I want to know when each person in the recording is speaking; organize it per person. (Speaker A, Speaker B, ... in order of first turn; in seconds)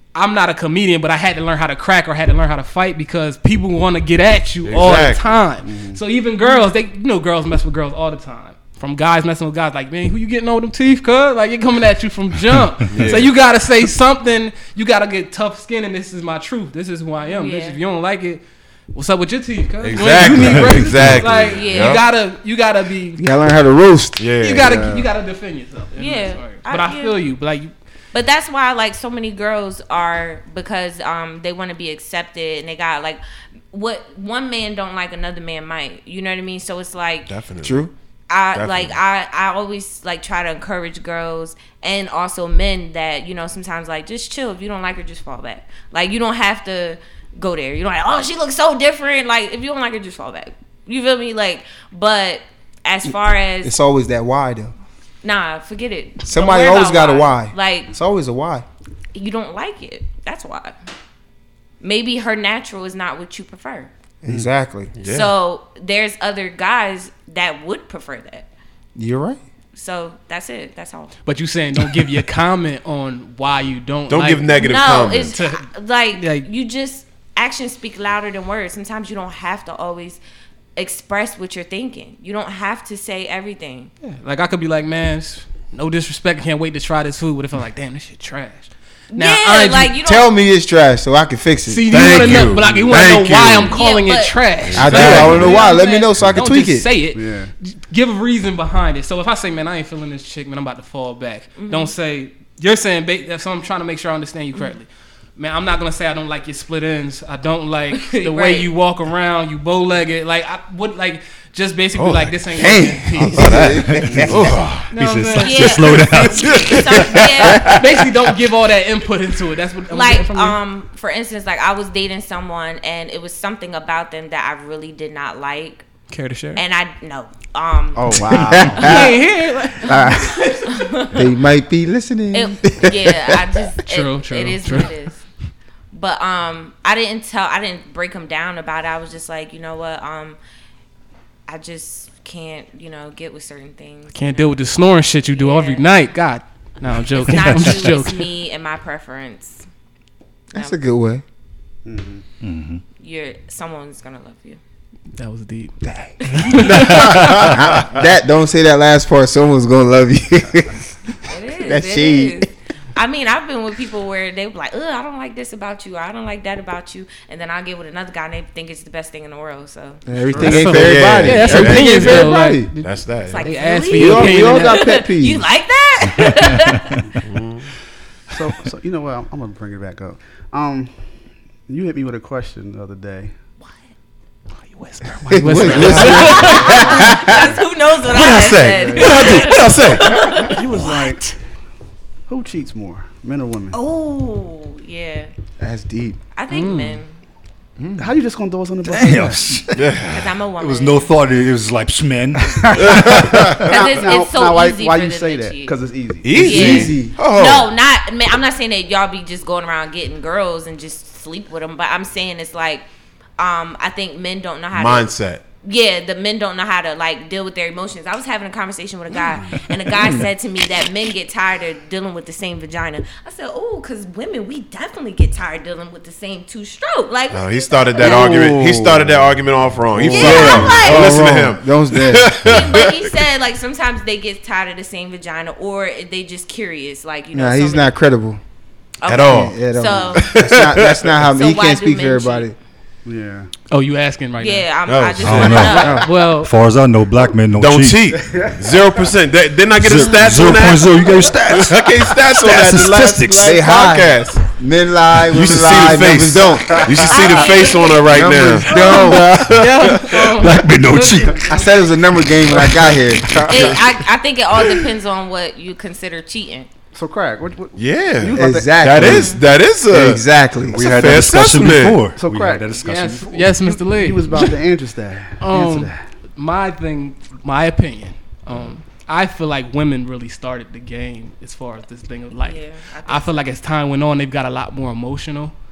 Speaker A: 0.1-18.4, 18.9-23.3, 24.4-27.7, 71.2-74.6, 75.3-76.5, 84.0-89.9, 91.7-113.8, 114.9-115.8, 117.5-120.6, 126.1-126.6, 128.5-130.4, 133.9-134.9, 144.1-148.3, 155.2-155.8, 156.3-157.4, 170.4-175.0, 184.6-187.0, 196.5-197.0, 243.7-244.7, 245.8-246.5, 258.7-261.9, 272.8-274.6, 275.4-285.5
Speaker B: 4.6-5.4, 12.9-13.3, 19.8-22.0, 24.2-24.8, 37.3-37.8, 38.5-39.0, 65.0-65.3, 74.1-75.3, 91.9-93.8, 94.6-95.6, 111.9-112.4, 113.3-114.9, 116.5-116.7, 170.4-173.5, 177.2-177.7, 185.8-186.5, 188.1-190.5, 199.7-200.3, 202.8-203.7, 206.2-207.7, 214.7-215.4, 227.3-233.1, 239.1-239.6, 240.2-241.1, 244.9-245.9, 247.6-250.9, 251.5-254.5, 255.3-260.3, 267.8-270.2, 270.8-272.1
Speaker C: 5.6-6.0, 97.1-97.5, 127.9-129.1, 129.8-130.7, 151.8-152.2, 170.1-170.9, 178.3-180.9, 181.7-183.3, 185.5-186.0, 188.7-189.6, 190.4-191.2, 192.3-193.8, 198.0-199.6, 202.8-207.0, 228.0-228.8, 243.0-243.5, 248.3-248.9, 256.9-257.5, 266.9-269.3, 272.1-276.0
Speaker D: 17.2-17.8, 21.3-22.0, 25.9-27.1, 28.1-33.2, 33.7-37.3, 38.3-53.7, 55.2-57.9, 59.1-60.8, 61.8-63.9, 65.0-68.5, 69.7-71.1, 74.6-80.2, 80.8-83.9, 89.1-90.3, 93.7-94.4, 95.3-96.1, 101.6-101.9, 107.9-108.7, 115.4-117.8, 119.9-125.8, 126.5-128.1, 130.6-131.3, 132.3-135.2, 135.9-140.4, 141.5-144.6, 145.2-145.9, 147.2-149.7, 153.0-154.6, 156.2-156.7, 161.3-170.0, 173.3-177.0, 186.0-190.6, 193.7-195.3, 196.3-197.2, 200.1-201.1, 203.6-205.7, 206.3-212.8, 213.4-215.1, 215.6-228.5, 230.0-231.2, 232.4-237.9, 239.0-240.6, 241.2-242.5, 244.4-246.1, 257.1-258.1, 263.5-266.7, 282.3-283.4
Speaker E: 23.2-25.1, 37.6-37.9, 53.1-54.7, 56.2-58.6, 64.2-65.0, 69.0-69.4, 90.0-92.1, 94.7-96.9, 112.5-114.6, 117.4-118.1, 128.3-129.2, 131.1-133.4, 150.5-151.2, 155.8-160.9, 161.6-162.5, 170.1-172.7, 173.9-175.4, 185.3-187.6, 195.6-196.2, 206.3-207.2, 228.2-229.0, 229.9-232.5, 237.3-238.4, 239.2-242.6, 252.5-257.2, 258.1-259.4, 261.4-263.8, 268.3-270.9
Speaker F: 113.9-117.1, 147.5-147.8, 152.4-152.8, 198.8-199.9, 200.6-203.6, 245.2-248.1, 249.8-253.6, 259.1-261.4, 262.5-262.9, 270.7-273.5